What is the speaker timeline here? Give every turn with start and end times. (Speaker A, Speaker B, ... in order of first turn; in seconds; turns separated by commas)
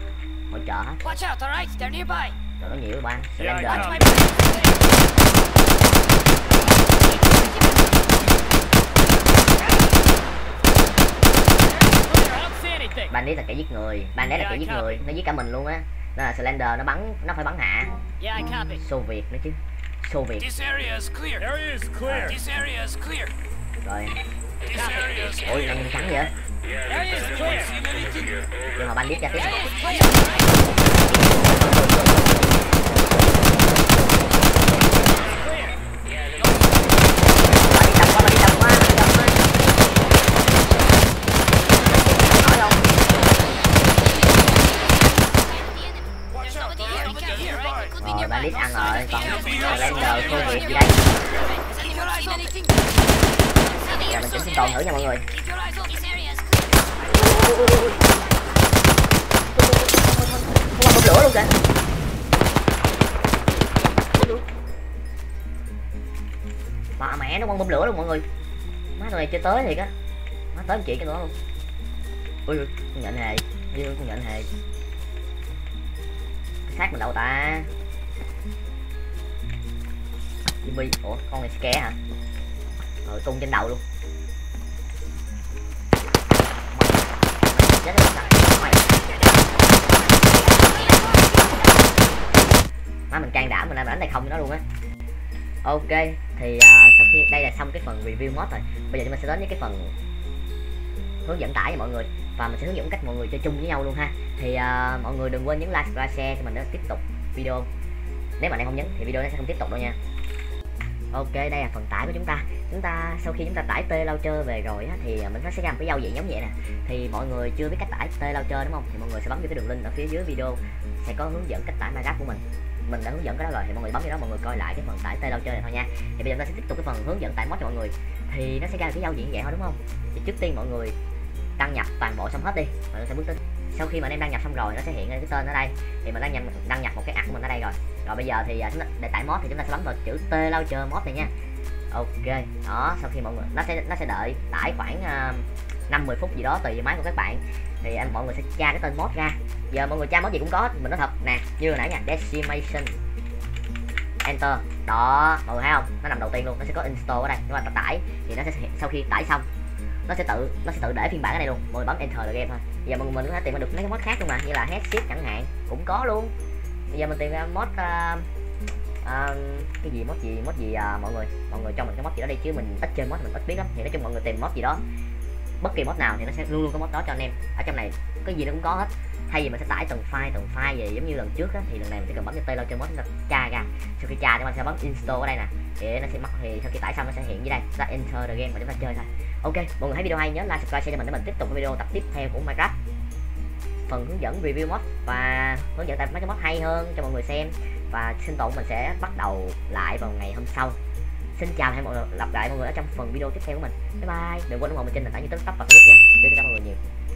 Speaker A: 0.5-1.0, Speaker B: 1.0-2.4, Speaker A: 2.6-4.1, Speaker B: 3.4-4.9, Speaker B: 6.9-7.9, Speaker B: 9.5-10.0, Speaker B: 11.5-13.1, Speaker A: 13.1-17.9, Speaker B: 14.3-15.0, Speaker B: 18.2-18.8, Speaker A: 18.8-20.5, Speaker B: 20.4-23.3, Speaker A: 22.1-22.4, Speaker A: 23.8-24.2, Speaker B: 24.7-25.5, Speaker A: 25.4-26.3, Speaker B: 26.9-28.3, Speaker A: 28.7-29.6, Speaker B: 29.6-30.5, Speaker A: 31.1-32.5, Speaker A: 37.6-39.4, Speaker A: 41.8-43.1, Speaker B: 45.2-52.8, Speaker A: 48.0-51.1, Speaker B: 53.5-56.6, Speaker A: 54.0-55.2, Speaker A: 57.0-58.0, Speaker A: 59.5-61.5, Speaker A: 64.1-64.4, Speaker A: 67.0-68.2, Speaker A: 69.0-69.9, Speaker A: 70.5-71.3, Speaker A: 72.5-74.5, Speaker A: 76.7-77.7, Speaker A: 80.6-82.0, Speaker A: 83.0-83.8, Speaker A: 86.7-88.9, Speaker A: 93.1-94.6, Speaker A: 95.6-99.9, Speaker A: 101.2-107.7, Speaker A: 108.4-110.0, Speaker A: 111.1-130.9, Speaker A: 131.6-141.3, Speaker A: 141.9-153.0, Speaker A: 154.2-159.4, Speaker A: 160.1-166.3, Speaker A: 166.9-168.3, Speaker A: 169.0-174.8, Speaker A: 175.6-192.8, Speaker A: 193.9-200.8, Speaker A: 201.3-206.8